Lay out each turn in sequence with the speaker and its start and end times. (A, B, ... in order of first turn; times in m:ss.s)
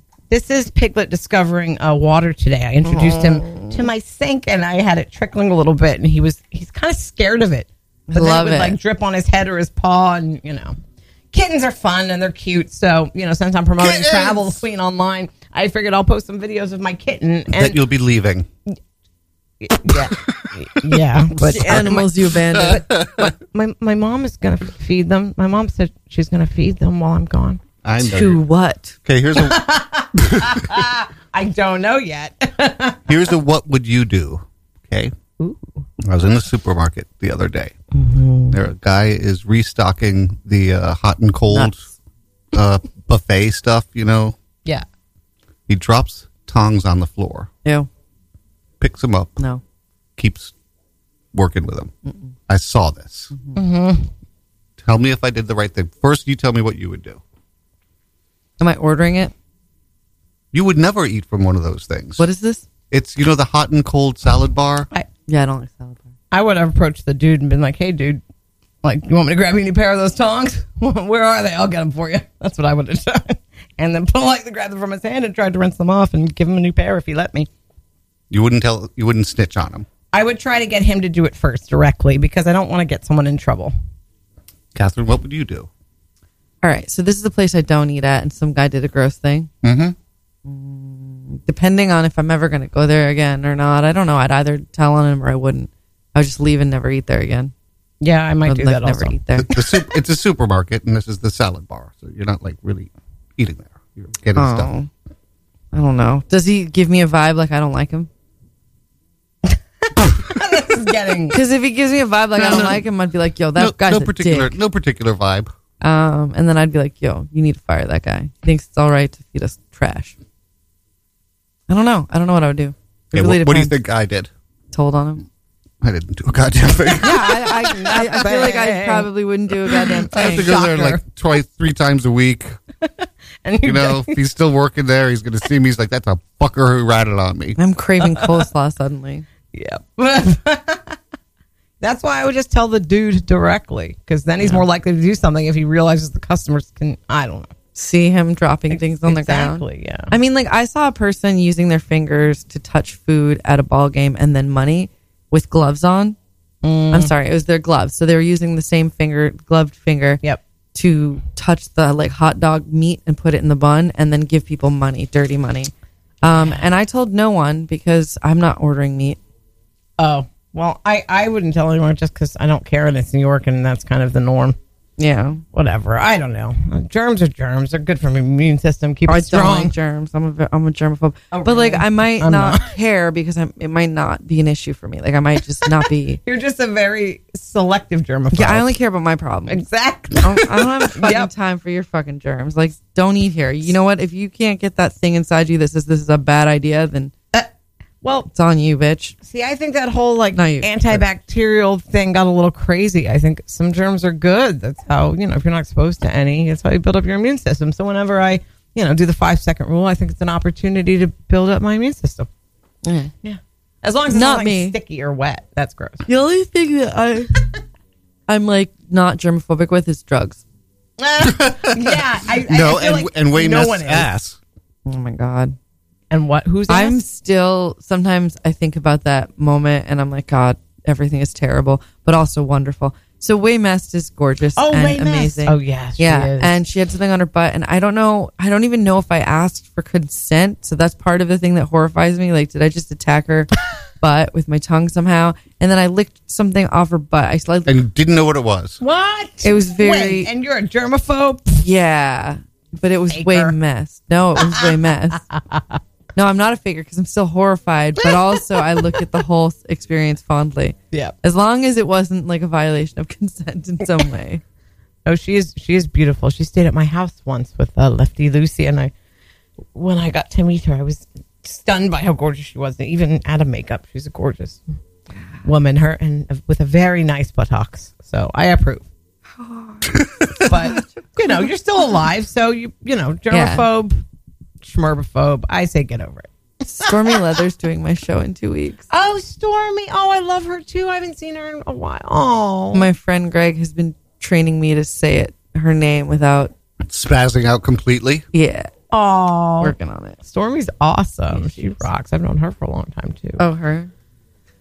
0:00.3-0:10.8 A
0:02.8-0:03.8 B
0:08.1-0:08.8 B
0:11.3-0:17.8 A
0:13.8-0:14.6 C
0:17.5-0:18.5 C
0:19.6-0:27.6 A
0:20.2-0:20.9 C
0:21.4-0:22.8 B
0:21.6-0:21.9 C
0:22.5-0:23.3 C
0:27.8-0:28.4 C
0:28.0-0:29.0 B
0:29.0-0:29.6 C
0:29.3-0:33.1 A
0:30.1-0:30.8 C
0:33.1-0:35.1 C
0:35.4-0:35.7 A
0:36.0-0:37.8 C
0:38.0-0:38.5 B
0:38.5-0:41.8 C
0:41.5-0:41.9 B
0:42.5-0:44.4 C
0:45.7-0:47.5 C
0:48.8-0:49.4 C
0:50.2-0:50.5 C
0:51.3-0:51.9 C
0:52.5-0:53.3 C
0:53.5-0:54.1 A
0:54.8-0:57.2 C
0:58.6-0:59.3 B
1:00.5-1:02.2 C
1:02.2-1:02.6 B
1:02.9-1:04.9 C
1:05.3-1:06.0 B
1:06.3-1:08.2 A
1:08.8-1:17.5 A
1:18.3-1:19.8 C
1:20.1-1:23.7 A
1:24.7-1:25.7 C
1:26.6-1:29.5 B
1:29.6-1:29.9 C
1:30.4-1:37.5 B
1:38.0-1:39.6 A
1:38.4-1:39.5 B
1:39.4-1:44.7 C
1:44.4-1:44.9 B
1:45.7-1:48.1 B
1:50.0-1:51.4 A
1:51.3-1:54.5 B
1:52.4-1:52.8 C
1:53.6-1:55.5 C
1:55.8-2:00.1 B
2:01.7-2:03.7 B
2:03.1-2:04.3 C
2:04.7-2:05.2 B
2:05.8-2:07.7 C
2:07.0-2:10.5 B
2:07.6-2:09.1 A
2:09.6-2:11.0 A
2:10.1-2:12.6 C
2:13.4-2:14.2 A
2:13.6-2:17.6 C
2:17.6-2:19.2 B
2:18.0-2:18.4 A
2:19.5-2:21.0 A
2:21.8-2:27.5 A
2:27.7-2:36.2 B
2:28.7-2:30.1 A
2:36.6-2:37.1 A
2:36.9-2:40.2 B
2:40.7-2:45.7 B
2:46.2-2:49.2 B
2:46.2-2:46.6 A
2:50.0-2:54.6 A
2:55.0-2:55.4 B
2:55.5-2:59.7 A
2:59.1-3:06.2 B
3:01.3-3:02.7 A
3:06.2-3:08.7 A
3:08.3-3:09.6 B
3:09.5-3:11.3 A
3:10.2-3:17.1 B
3:18.0-3:18.3 A
3:18.3-3:19.2 B
3:19.2-3:32.3 A
3:20.3-3:21.0 B
3:32.8-3:33.1 B
3:33.2-3:36.0 A
3:34.1-3:34.8 B
3:36.0-3:37.4 B
3:38.3-3:40.4 B
3:41.0-3:44.1 A
3:41.2-3:44.4 C
3:44.8-3:45.6 B
3:46.1-3:47.0 A
3:46.7-4:07.8 B
3:54.6-3:56.6 A
4:07.6-4:08.8 C
4:08.8-4:11.6 A
4:09.4-4:10.3 B
4:11.6-4:15.2 B
4:13.1-4:13.5 A
4:14.4-4:15.8 A
4:16.1-4:24.4 B
4:25.0-4:28.9 A
4:29.7-4:34.6 A
4:35.4-4:38.9 A
4:39.4-4:41.4 B
4:40.4-4:44.0 A
4:43.3-4:43.7 B
4:44.6-4:46.3 A
4:46.6-4:48.8 B
4:46.8-4:47.2 A
4:48.9-4:52.9 A
4:52.7-4:56.5 B
4:56.8-4:58.3 C
4:58.3-4:58.7 B
4:58.9-5:03.4 A
4:59.6-5:00.2 B
5:01.3-5:01.9 B
5:03.4-5:03.9 B